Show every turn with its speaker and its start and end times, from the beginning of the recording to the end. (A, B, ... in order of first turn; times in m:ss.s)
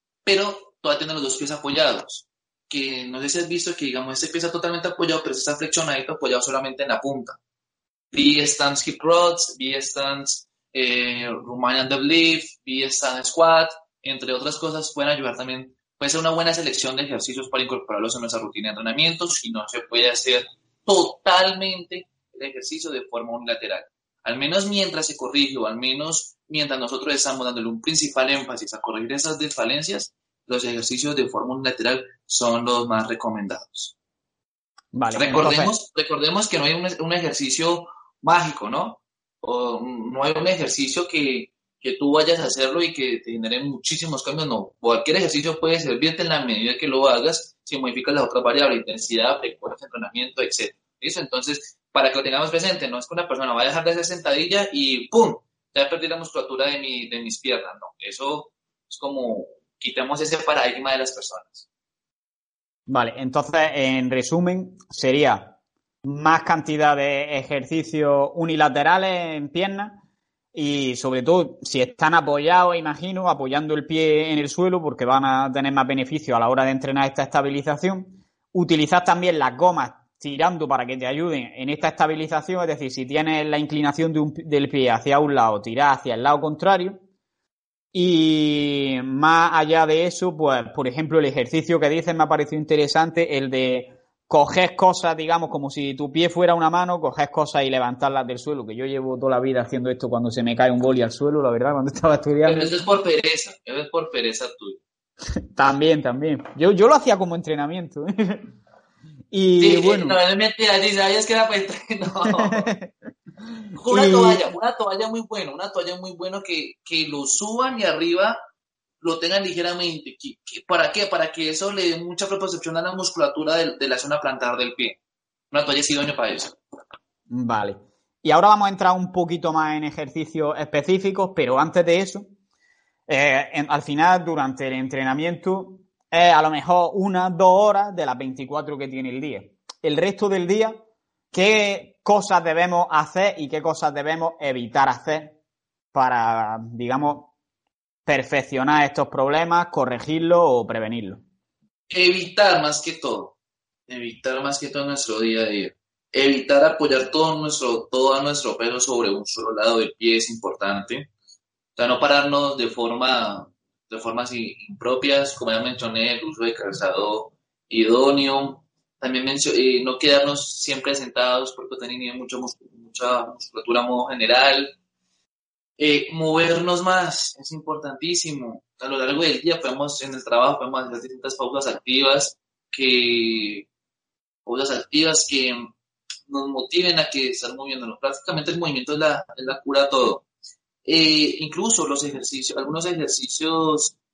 0:00.2-0:07.4 A
0:08.1-0:33.9 A
0:34.9-0:35.7 B
0:35.1-1:01.7 A
1:02.9-1:10.0 B
1:10.5-1:27.0 B
1:27.9-1:42.7 B
1:42.4-1:44.8 A
1:45.6-1:48.5 B
1:49.3-1:50.2 B
1:49.6-1:52.7 A
1:52.3-1:52.9 B
1:53.8-1:54.4 B
1:53.8-1:58.4 A
1:59.0-2:05.0 A
2:05.5-2:06.6 A
2:07.3-2:12.3 B
2:13.1-2:20.8 B
2:21.3-2:25.4 B
2:25.9-2:27.3 B
2:28.1-2:31.2 B
2:31.9-2:33.4 A
2:33.9-2:41.1 A
2:41.8-2:54.7 A
2:55.8-3:03.7 A
3:04.4-3:05.7 A
3:06.3-3:10.2 A
3:10.8-3:13.9 A